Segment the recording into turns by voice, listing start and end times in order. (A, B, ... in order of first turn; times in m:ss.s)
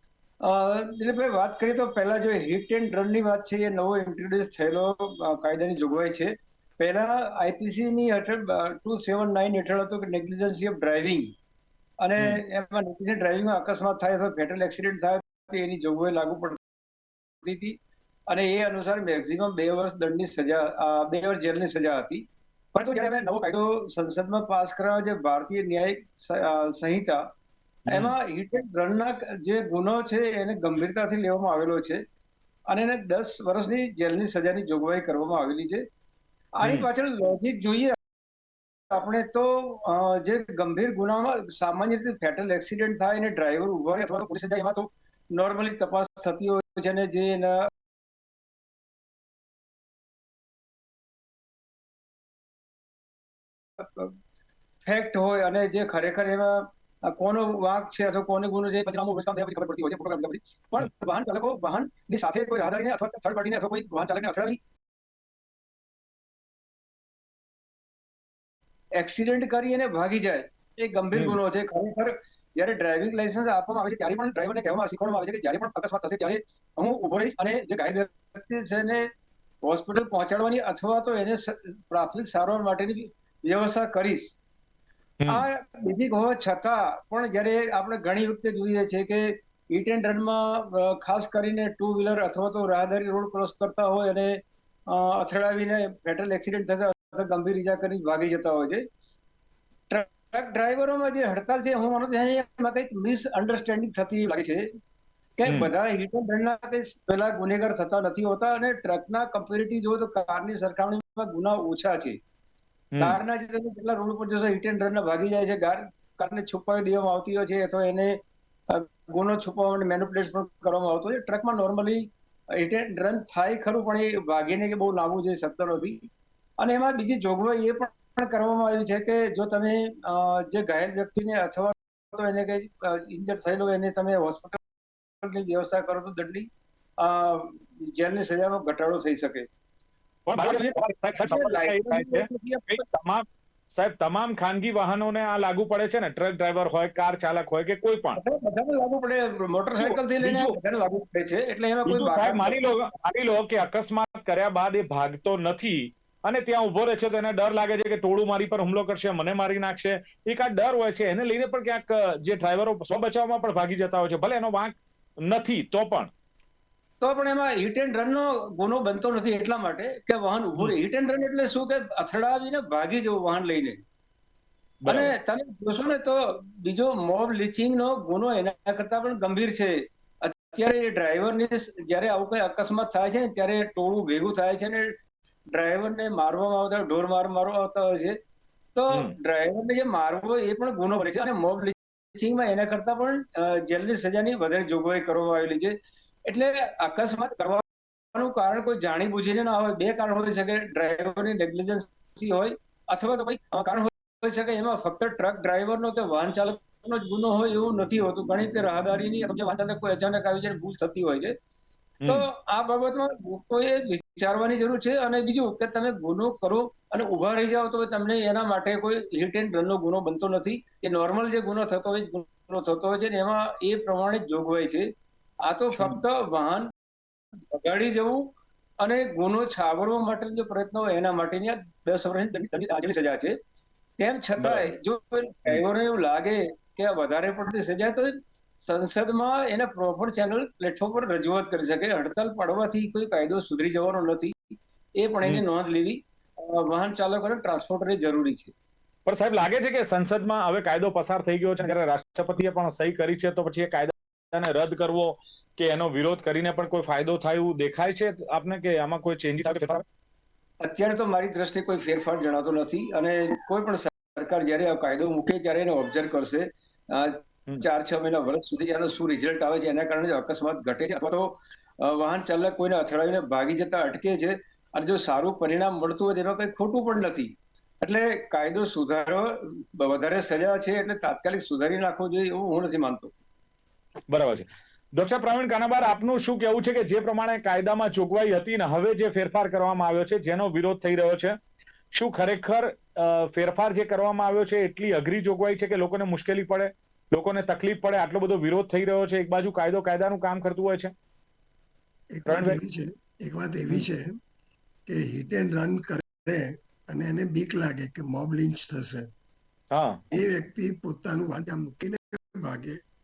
0:00.4-0:11.3 A
0:12.0-0:16.6 A
0:17.4-0:17.8 A
0:18.3-0:27.2 A
0:27.9-0:28.1 B
0:27.9-0:32.0 A
0:32.7-0:35.8 A
0:36.6-0:38.0 A
0:38.9-0:47.7 A
0:53.8-0:54.1 A
0:54.8-1:04.6 A
1:09.0-1:19.1 A
1:19.6-1:24.3 A
1:25.3-1:34.4 A
1:34.9-1:38.8 A
1:39.9-1:44.7 A
1:45.4-1:52.2 A
1:52.9-1:53.2 B
1:53.0-1:58.2 A
1:58.7-2:06.0 A
2:06.6-2:14.6 A
2:15.2-2:16.5 A
2:17.0-2:19.5 A
2:20.3-2:28.2 B
2:20.4-2:22.8 A
2:28.1-2:32.6 A
2:29.8-2:30.5 B
2:31.8-2:46.1 B
2:47.0-2:53.8 A
2:54.8-2:55.1 B
2:54.9-3:04.9 A
3:05.5-3:08.2 A
3:08.7-3:15.7 A
3:16.3-3:31.3 A
3:32.0-3:32.3 B
3:32.1-3:44.9 A
3:45.4-3:46.7 A
3:45.7-3:46.0 B
3:47.3-3:48.3 A
3:48.8-3:53.4 A
3:54.0-4:04.3 A
3:54.4-3:54.7 B
4:05.0-4:08.5 A
4:09.0-4:19.8 B
4:20.6-4:43.1 A
4:44.1-4:51.4 B
4:51.9-5:00.9 B
5:02.1-5:04.2 C
5:02.3-5:02.6 B
5:04.9-5:09.1 C
5:09.7-5:10.0 B
5:10.1-5:12.8 C